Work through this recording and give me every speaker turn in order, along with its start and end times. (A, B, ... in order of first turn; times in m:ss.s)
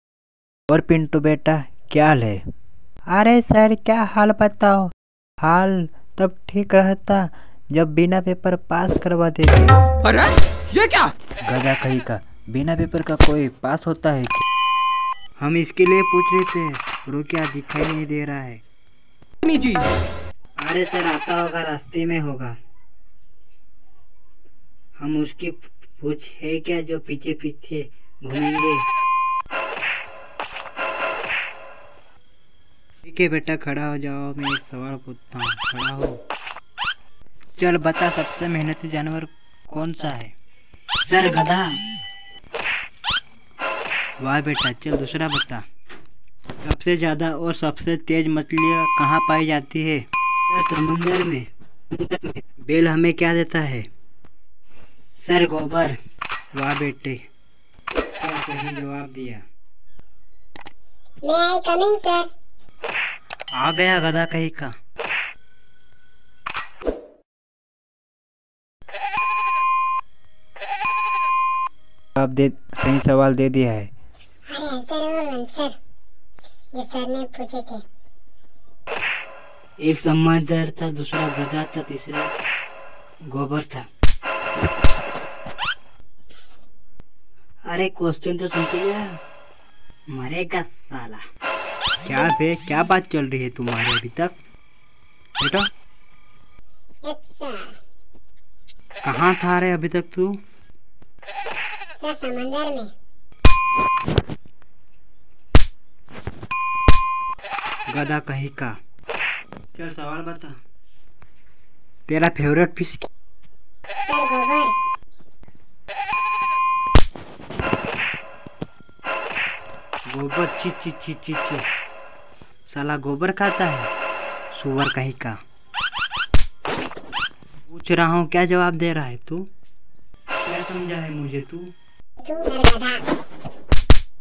0:00.7-0:02.4 A
0:03.1-0:04.9 A
0:05.4-0:09.8 A
0:11.4-0:14.4 A
0:15.4-0:18.6 A
0:20.6-0:22.6 A
0:25.0-0:28.8 A
0:33.0-0:36.2 A
0:37.6-0:40.3 A
0:41.1-0:41.8 A
0:44.2-0:45.6 A
0:46.6-0:53.9 A
0:55.2-0:56.0 A
0:56.5-0:57.2 A
0:58.2-0:59.4 A
1:01.2-1:02.3 B
1:03.6-1:04.7 A
1:12.2-1:13.9 A
1:14.5-1:15.8 B
1:16.7-1:17.8 B
1:19.8-1:22.3 A
1:23.3-1:23.9 A
1:27.7-1:29.2 A
1:30.1-1:31.2 A
1:32.0-1:34.4 A
1:35.4-1:35.7 A
1:37.0-1:37.8 B
1:39.0-1:40.4 A
1:42.0-1:42.9 B
1:47.9-1:48.8 A
1:49.8-1:50.6 A
1:52.1-1:53.1 A
1:54.0-1:54.7 B
2:00.1-2:01.6 A
2:02.7-2:03.9 A
2:04.5-2:05.4 A
2:07.7-2:09.5 A
2:10.4-2:11.7 A
2:12.2-2:13.0 B